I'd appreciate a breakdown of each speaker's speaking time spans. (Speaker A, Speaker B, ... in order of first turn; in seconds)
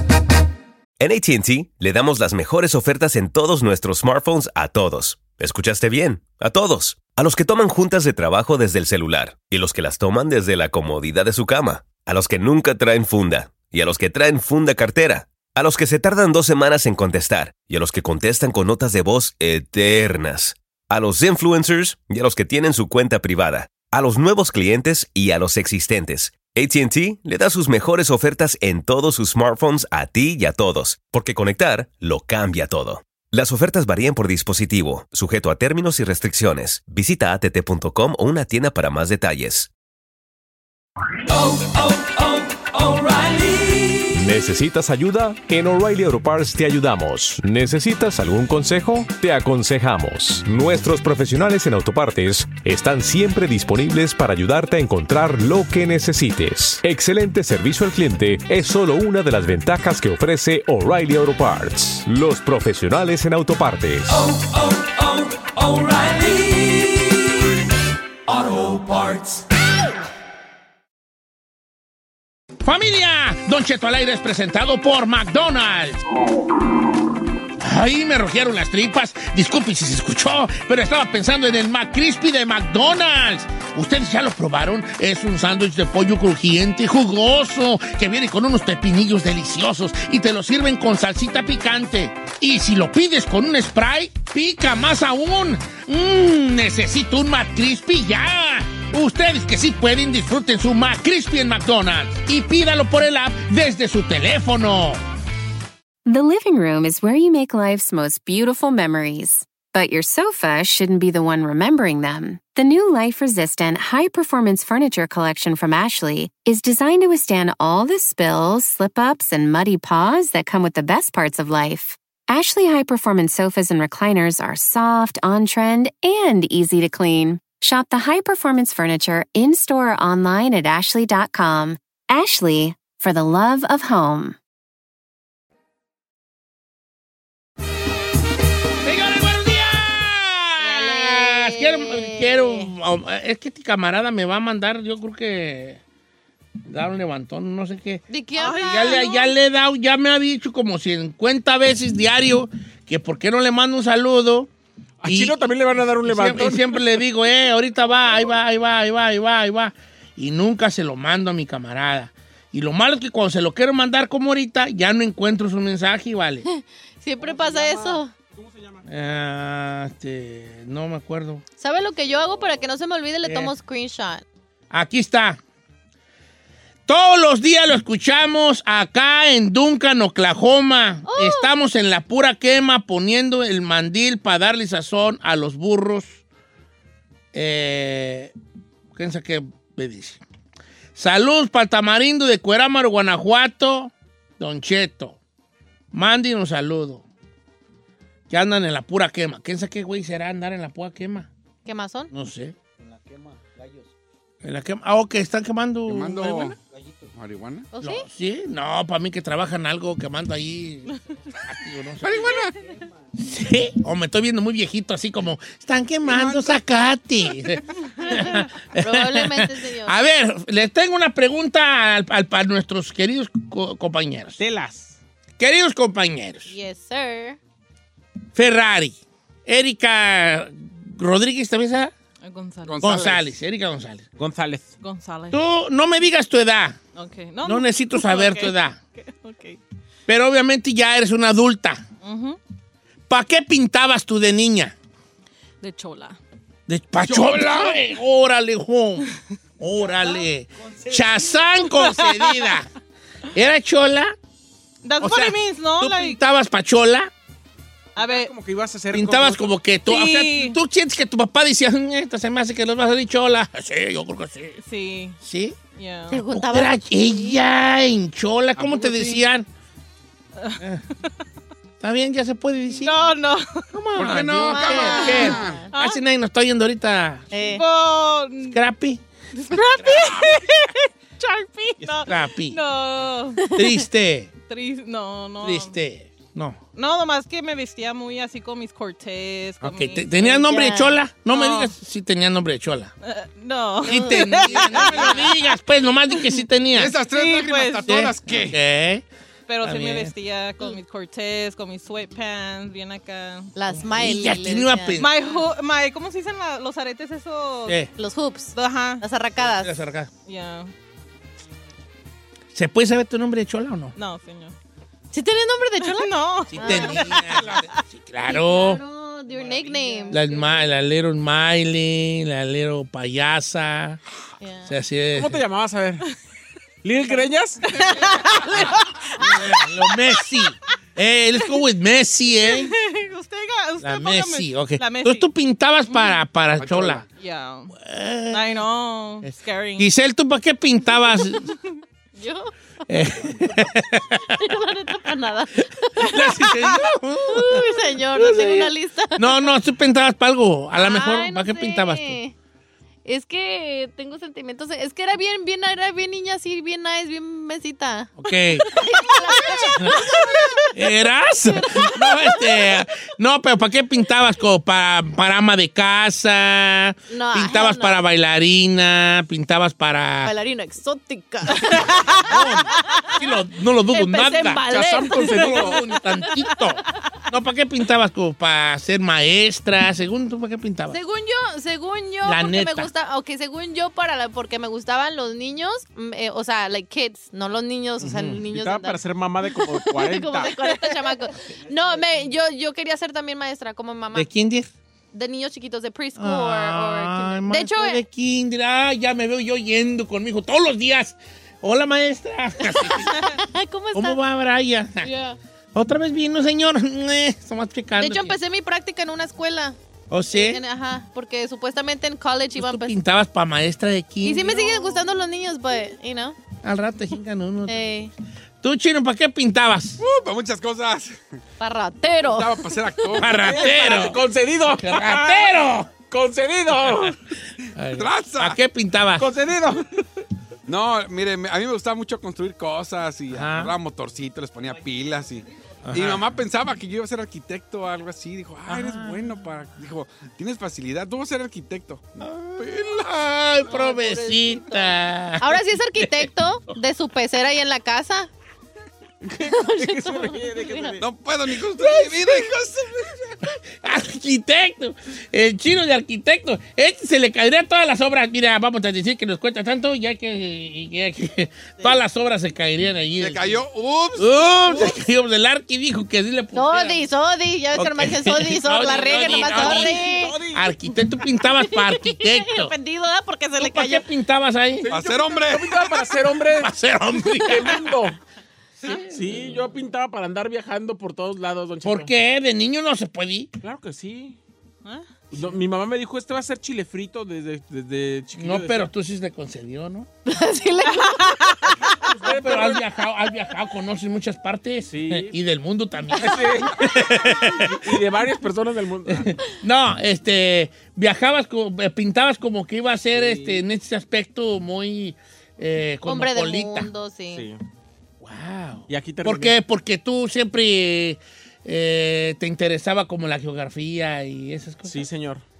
Speaker A: 1.0-39.7
Speaker B: 44.0-64.4
Speaker C: 72.6-76.0, 77.6-105.0, 138.8-145.8, 146.7-154.5, 155.0-155.4, 156.0-166.4, 168.9-171.4, 173.2-173.5, 174.7-175.4, 176.9-186.2, 187.3-188.3, 188.9-190.2, 190.9-195.2, 195.9-197.0, 198.3-201.3, 202.1-202.6, 204.4-206.6, 207.8-212.3, 213.2-224.4, 225.4-226.5, 228.3-231.9, 232.8-234.1, 235.3-236.8, 237.4-238.8, 240.1-241.8, 243.1-244.8, 246.7-252.7, 253.3-254.2, 255.0-257.1, 258.9-264.6, 265.2-265.6, 266.3-269.5, 271.8-273.0, 273.7-277.3, 278.5-279.0, 282.0-282.6, 283.5-284.3, 285.4-286.6, 289.6-292.9, 293.8-297.0, 297.9-299.1, 299.6-300.1, 303.8-305.2, 309.4-310.1, 312.5-313.9, 316.5-318.8, 320.1-324.0, 324.7-325.4, 328.5-332.7, 333.8-337.1, 337.8-338.6, 339.2-341.5, 342.9-344.6, 346.0-352.2, 358.2-358.7, 359.8-360.0, 360.7-370.3, 371.7-381.0, 382.2-382.9, 388.0-388.4, 394.1-394.7, 396.2-403.3, 403.9-405.1, 405.7-408.4, 410.1-410.6, 412.6-415.0, 416.6-418.1, 418.6-420.0, 423.2-425.9, 426.7-427.1, 427.7-429.3, 433.3-433.7, 435.9-436.3, 438.7-439.2, 442.3-446.3, 453.4-463.6, 464.2-467.0, 467.7-472.8, 473.6-474.9, 476.6-477.9, 478.8-479.7, 481.8-483.5, 488.4-490.1, 492.3-497.9, 499.1-506.9, 508.2-515.1
Speaker D: 106.1-134.4
Speaker E: 140.6-142.7, 148.1-149.1, 166.4-168.1, 171.6-174.2, 181.1-181.5, 201.7-202.1, 207.7-208.1, 218.1-220.0, 226.5-227.4, 266.1-267.4, 274.5-275.7, 277.3-277.6, 290.4-291.0, 293.9-294.4, 303.6-305.0, 308.0-309.8, 315.1-317.4, 318.3-320.2, 324.4-324.7, 342.2-342.5, 344.3-349.5, 350.8-352.3, 353.1-358.1, 358.7-360.7, 361.5-362.5, 367.1-368.0, 370.2-373.2, 373.9-375.8, 380.9-394.3, 395.1-398.0, 402.8-404.2, 405.0-405.4, 408.0-409.8, 410.3-412.9, 414.2-416.4, 417.7-418.1, 421.6-423.1, 443.7-444.9, 445.4-448.3, 449.4-450.9, 451.8-452.4, 466.5-470.4, 471.4-474.1, 490.3-491.8, 506.1-507.5
Speaker F: 148.4-149.3, 232.2-232.8, 234.8-235.4, 236.9-239.6, 242.0-242.4, 245.6-246.2, 251.7-252.6, 254.8-256.2, 258.0-258.3, 259.9-260.6, 264.6-265.2, 265.8-266.2, 272.8-273.7, 275.0-276.0, 277.4-278.6, 279.4-283.5, 284.5-285.7, 286.8-290.5, 291.3-291.7, 293.0-295.6, 296.1-296.4, 297.1-298.0, 299.5-303.5, 305.0-307.8, 308.5-309.0, 310.2-310.7, 314.0-314.6, 315.8-317.8, 320.1-320.4, 327.7-330.2, 332.4-335.3, 335.9-336.2, 337.2-337.8, 338.3-339.9, 359.3-360.6, 484.8-485.2, 490.9-491.6
Speaker G: 155.0-156.9, 167.3-168.8, 224.4-225.0, 234.2-234.7, 258.0-259.5, 325.1-326.0, 326.8-327.8, 374.6-375.8, 388.5-390.6, 423.4-427.2, 429.2-430.0, 449.3-451.1, 469.0-470.7, 474.8-476.7, 477.4-478.2, 478.9-482.1, 483.6-484.4, 485.3-488.9, 492.0-492.8, 494.9-495.4, 496.1-499.4, 503.1-503.6, 507.3-507.6, 508.9-509.6, 514.9-515.4
Speaker H: 205.9-207.7, 212.0-212.6, 216.1-216.6, 232.6-233.3, 247.0-247.8, 268.6-269.3, 274.0-275.7, 296.8-298.6, 336.6-337.1, 420.0-421.2, 422.2-423.7, 427.9-428.6, 430.7-443.1, 451.0-453.4, 463.2-464.9, 474.9-475.9